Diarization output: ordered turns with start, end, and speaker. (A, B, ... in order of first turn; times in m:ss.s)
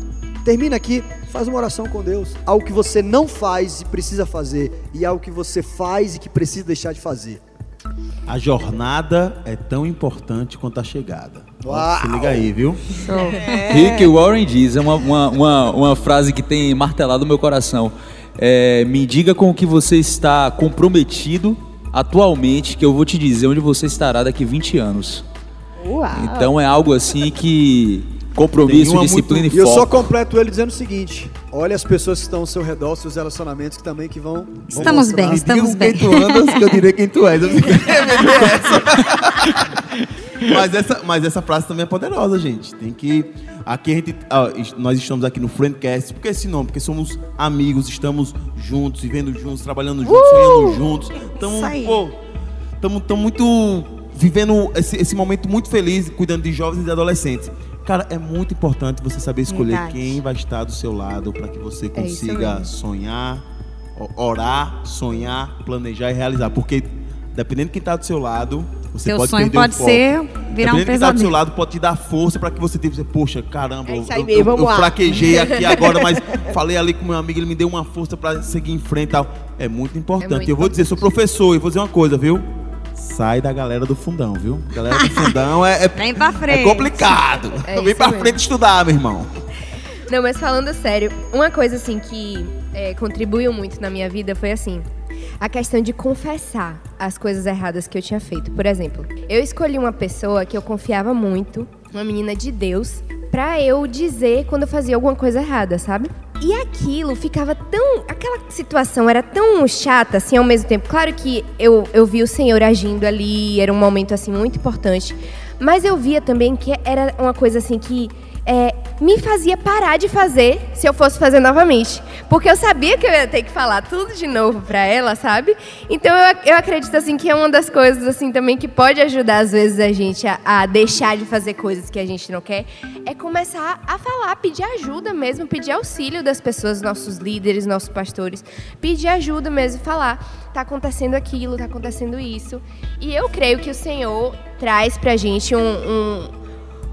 0:00.4-0:07.4 A
0:08.3-0:13.0 B
0:11.6-0:12.5 A
0:13.0-0:13.8 C
0:13.2-0:14.1 D
0:13.7-0:25.2 E
0:25.8-0:26.5 D
0:26.1-0:30.0 E
0:28.6-0:29.5 B
0:29.5-0:35.4 A
0:34.7-0:52.2 B
0:34.8-0:36.8 C
0:50.1-0:50.8 C
0:50.3-0:50.6 D
0:51.4-0:52.0 C
0:52.8-1:03.4 B
0:59.5-1:00.2 C
1:01.9-1:02.7 F
1:04.0-1:10.1 B
1:09.0-1:11.4 C
1:10.6-1:29.3 B
1:13.9-1:16.4 D
1:20.2-1:21.1 F
1:24.9-1:25.4 C
1:26.0-1:27.2 C
1:27.7-1:28.4 F
1:30.1-1:34.9 F
1:35.4-2:26.3 F